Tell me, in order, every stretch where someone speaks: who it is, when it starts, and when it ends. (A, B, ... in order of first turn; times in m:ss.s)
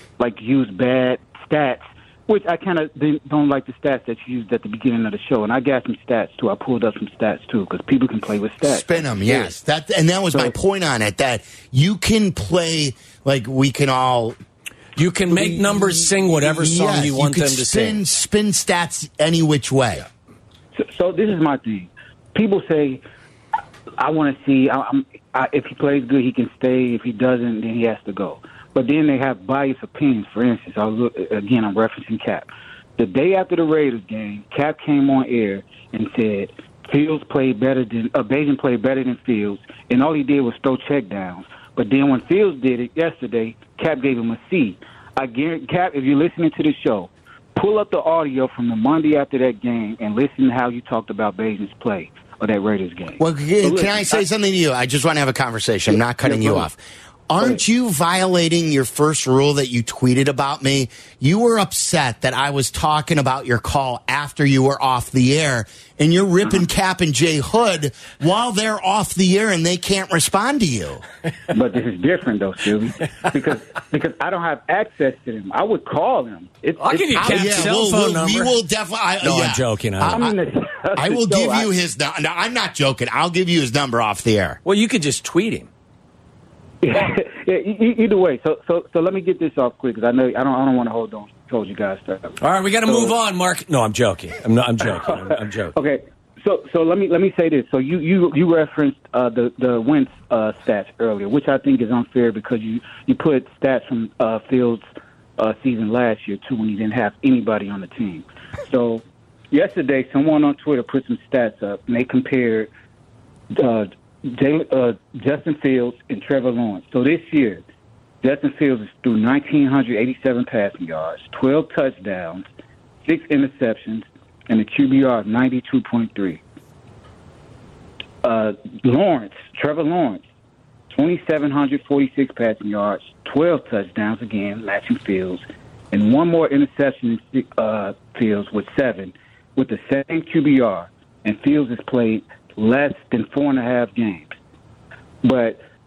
0:00.2-0:09.5 A
0:08.6-0:14.4 B
0:15.0-0:18.0 C
0:15.3-0:20.1 B
0:20.8-0:23.0 A
0:24.0-0:54.2 A
0:53.2-0:56.8 B
0:55.9-0:56.7 A
0:57.3-1:11.0 B
1:11.5-1:17.7 A
1:16.8-1:18.6 C
1:17.2-1:20.4 B
1:19.2-1:20.3 C
1:20.1-1:21.7 A
1:21.0-1:24.6 B
1:24.6-1:25.7 C
1:26.8-1:33.2 A
1:32.4-1:35.8 C
1:35.0-1:52.7 A
1:53.5-1:57.6 A
1:58.2-2:02.5 A
2:03.0-2:06.4 A
2:08.2-2:10.2 A
2:10.9-2:24.4 A
2:25.2-2:25.6 A